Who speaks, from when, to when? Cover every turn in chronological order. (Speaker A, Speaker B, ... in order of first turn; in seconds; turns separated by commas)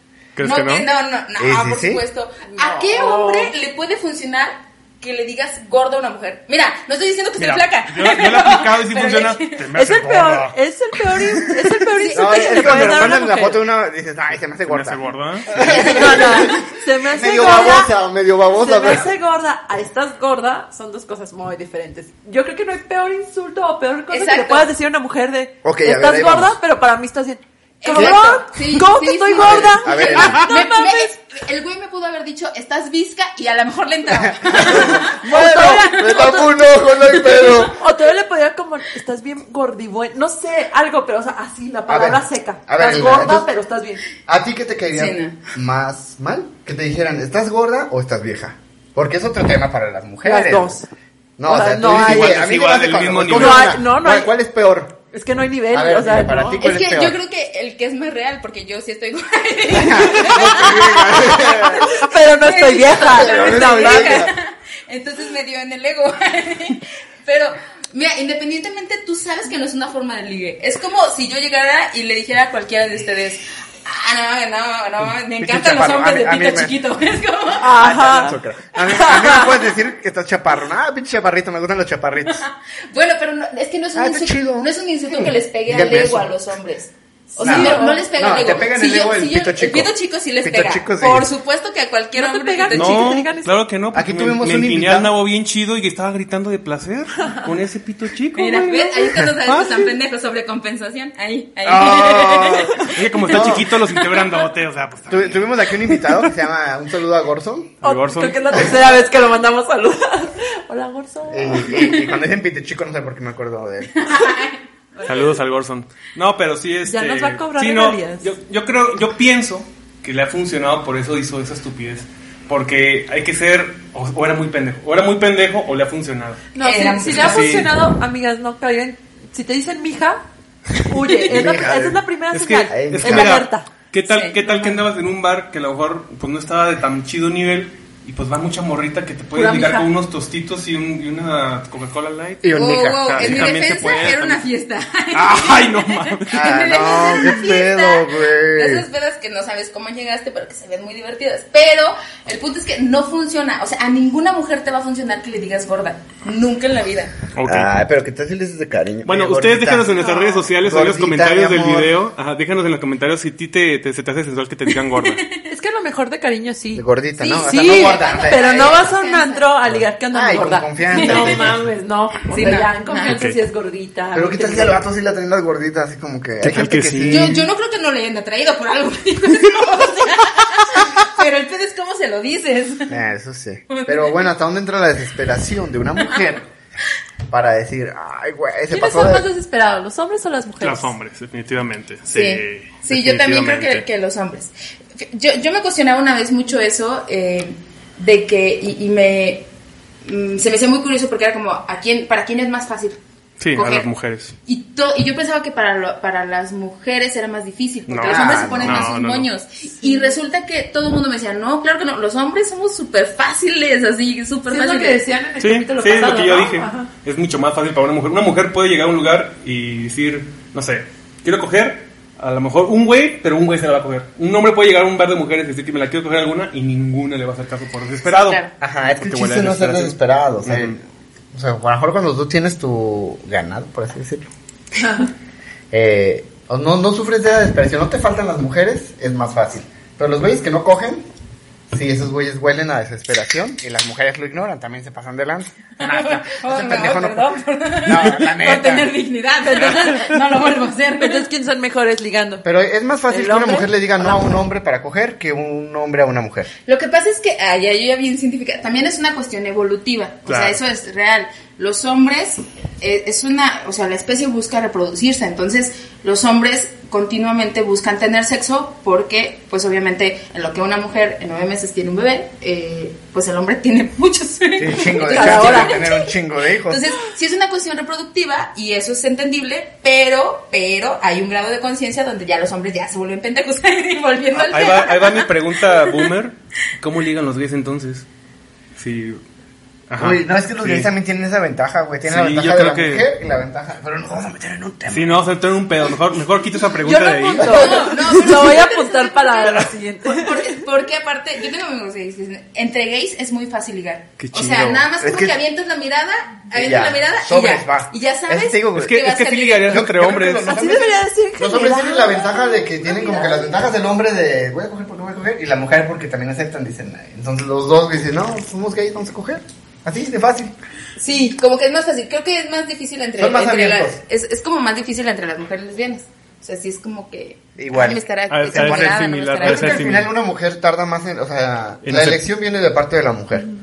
Speaker A: 0.3-0.8, Speaker B: 0.4-9.6, Speaker C: 1.4-2.0, Speaker D: 2.5-3.5, Speaker A: 7.4-10.5, Speaker D: 9.7-13.6, Speaker B: 11.9-13.2, Speaker C: 12.1-19.1, Speaker A: 14.7-15.5, Speaker B: 15.6-16.7, Speaker D: 15.6-17.9, Speaker B: 17.3-17.8, Speaker D: 18.5-31.1, Speaker B: 24.1-24.7, Speaker C: 25.6-26.6, Speaker B: 27.8-36.5, Speaker C: 27.9-28.2, Speaker C: 29.3-30.4, Speaker C: 34.1-37.7, Speaker D: 34.8-36.2, Speaker B: 37.2-37.6, Speaker D: 37.5-44.0, Speaker C: 41.9-43.5, Speaker C: 44.2-50.8, Speaker B: 44.9-45.4, Speaker D: 50.2-50.9, Speaker C: 51.4-55.0, Speaker D: 51.4-52.3, Speaker A: 51.8-53.8, Speaker D: 53.3-54.3, Speaker D: 55.1-56.6, Speaker C: 55.7-57.2, Speaker B: 56.6-78.0, Speaker C: 59.7-61.9, Speaker D: 60.3-60.7, Speaker D: 61.6-64.3, Speaker C: 62.9-64.3, Speaker C: 75.4-76.8, Speaker D: 77.5-79.6, Speaker C: 77.7-82.4, Speaker B: 82.3-93.2, Speaker C: 83.9-86.3, Speaker D: 87.3-88.0, Speaker C: 87.4-89.9, Speaker C: 90.4-91.3, Speaker D: 92.2-93.5, Speaker A: 92.7-99.9, Speaker C: 93.9-95.1, Speaker B: 98.3-103.5, Speaker C: 101.6-103.7, Speaker A: 102.8-105.5, Speaker C: 105.1-107.7, Speaker A: 107.8-108.7, Speaker D: 107.8-112.0, Speaker C: 111.3-114.0, Speaker B: 114.0-115.3, Speaker A: 115.0-126.5, Speaker D: 116.8-118.3, Speaker D: 126.5-130.2, Speaker B: 126.6-127.6, Speaker A: 127.0-127.7, Speaker D: 130.7-133.7, Speaker B: 131.1-131.4, Speaker C: 131.2-132.0, Speaker A: 132.3-144.4, Speaker C: 132.7-133.4, Speaker B: 134.1-134.8, Speaker D: 139.3-139.9, Speaker C: 142.4-143.7, Speaker B: 142.5-157.1, Speaker A: 145.1-147.0, Speaker C: 146.3-148.8, Speaker A: 157.3-157.7, Speaker C: 157.4-160.0, Speaker A: 159.0-165.2, Speaker B: 160.0-160.4, Speaker C: 160.6-161.9, Speaker B: 165.1-165.4, Speaker D: 165.4-174.8, Speaker C: 166.7-168.9, Speaker B: 167.2-169.4, Speaker C: 169.7-171.6, Speaker B: 170.9-171.4, Speaker B: 172.3-173.2, Speaker A: 173.1-173.4, Speaker C: 174.1-177.5, Speaker A: 176.4-177.3, Speaker B: 177.1-182.9, Speaker C: 182.9-186.5, Speaker B: 183.7-184.2, Speaker C: 187.3-189.3, Speaker D: 188.7-190.9, Speaker A: 190.6-193.8, Speaker B: 192.1-199.5, Speaker B: 200.0-203.0, Speaker A: 203.4-204.3, Speaker B: 203.5-203.9, Speaker B: 204.4-215.0, Speaker A: 207.9-209.3, Speaker C: 208.0-208.9, Speaker D: 209.8-210.1, Speaker D: 214.5-216.9, Speaker A: 215.4-230.8, Speaker B: 228.0-228.5, Speaker C: 228.6-230.8, Speaker C: 231.3-234.3, Speaker D: 234.8-235.1, Speaker C: 235.7-241.0, Speaker C: 241.7-247.3, Speaker B: 245.8-251.3, Speaker C: 247.8-248.9, Speaker D: 249.4-250.1, Speaker D: 251.0-252.4, Speaker C: 252.4-256.5, Speaker D: 253.1-254.3, Speaker B: 256.6-276.1, Speaker A: 260.2-260.6, Speaker C: 274.6-276.9, Speaker D: 275.0-275.9, Speaker B: 276.6-285.9, Speaker A: 284.3-288.1, Speaker A: 288.8-289.2, Speaker A: 289.9-290.9, Speaker C: 290.0-295.2, Speaker A: 292.0-293.1, Speaker A: 294.9-298.1, Speaker D: 296.8-300.6, Speaker C: 297.4-297.8, Speaker B: 297.5-309.9, Speaker A: 304.2-304.9, Speaker C: 305.0-305.4, Speaker C: 306.5-309.0, Speaker A: 308.7-310.6, Speaker C: 309.7-320.5, Speaker D: 310.4-313.5, Speaker B: 321.0-329.9, Speaker C: 323.2-324.0, Speaker C: 327.6-333.5, Speaker A: 328.3-330.1, Speaker A: 331.8-332.2